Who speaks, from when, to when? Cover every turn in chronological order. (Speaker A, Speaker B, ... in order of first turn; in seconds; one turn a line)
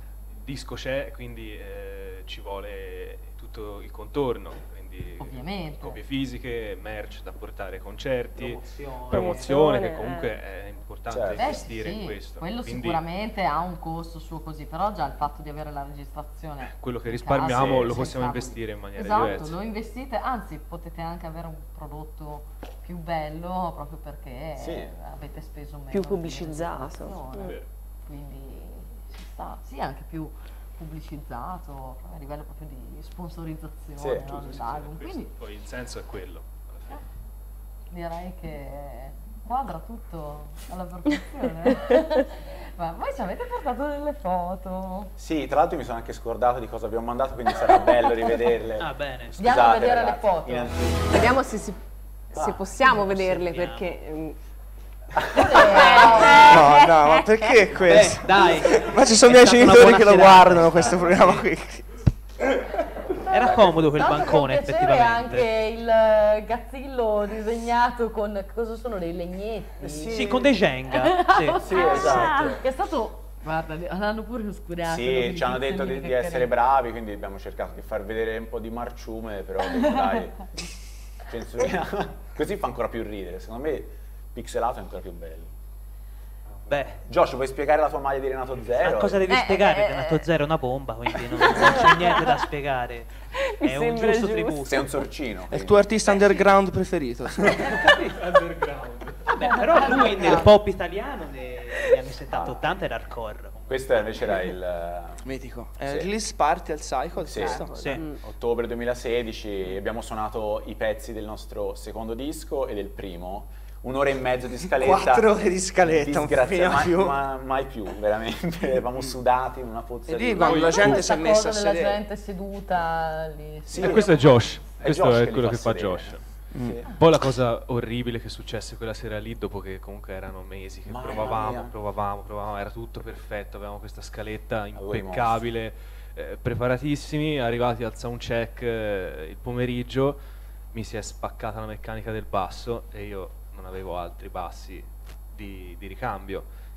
Speaker A: 0.4-13.0
Speaker B: 5.2-6.0
Speaker C: 8.3-9.6
Speaker D: 9.1-10.4
Speaker E: 11.1-11.7
Speaker B: 11.4-35.3
Speaker A: 16.7-19.6
Speaker E: 17.5-17.9
Speaker E: 24.6-25.0
Speaker D: 25.9-27.6
Speaker E: 34.0-34.5
Speaker A: 34.3-37.0
Speaker B: 37.9-45.1
Speaker E: 45.2-51.4
Speaker C: 48.8-49.4
Speaker B: 49.4-50.7
Speaker D: 51.1-51.8
Speaker D: 52.3-54.4
Speaker E: 52.3-52.7
Speaker C: 52.8-54.0
Speaker E: 55.2-55.7
Speaker B: 55.4-56.4
Speaker D: 55.4-57.8
Speaker C: 55.7-56.7
Speaker F: 56.3-61.9
Speaker C: 57.7-61.5
Speaker C: 63.2-65.6
Speaker B: 63.9-70.2
Speaker E: 69.8-70.7
Speaker C: 70.1-72.2
Speaker B: 70.9-76.5
Speaker E: 71.6-72.6
Speaker D: 71.7-72.6
Speaker E: 74.8-80.5
Speaker B: 79.8-80.1
Speaker E: 81.2-85.5
Speaker C: 86.7-87.0
Speaker E: 87.0-89.3
Speaker C: 88.8-95.0
Speaker D: 89.3-90.3
Speaker D: 91.2-92.4
Speaker D: 93.3-94.8
Speaker E: 94.7-95.8
Speaker F: 95.5-97.9
Speaker C: 96.1-96.4
Speaker C: 97.8-98.2
Speaker A: 98.2-99.4
Speaker C: 99.3-103.7
Speaker D: 100.2-100.5
Speaker E: 102.3-102.7
Speaker E: 103.7-105.2
Speaker F: 105.2-108.0
Speaker E: 105.8-106.1
Speaker E: 107.2-120.8
Speaker D: 107.4-108.2
Speaker C: 107.7-108.1
Speaker F: 114.7-117.2
Speaker F: 120.1-122.0
Speaker B: 120.4-124.1
Speaker A: 120.4-121.0
Speaker E: 123.7-126.9
Speaker A: 123.8-140.2
Speaker F: 126.5-126.8
Speaker E: 130.8-131.7
Speaker E: 134.8-135.4
Speaker A: 140.7-146.5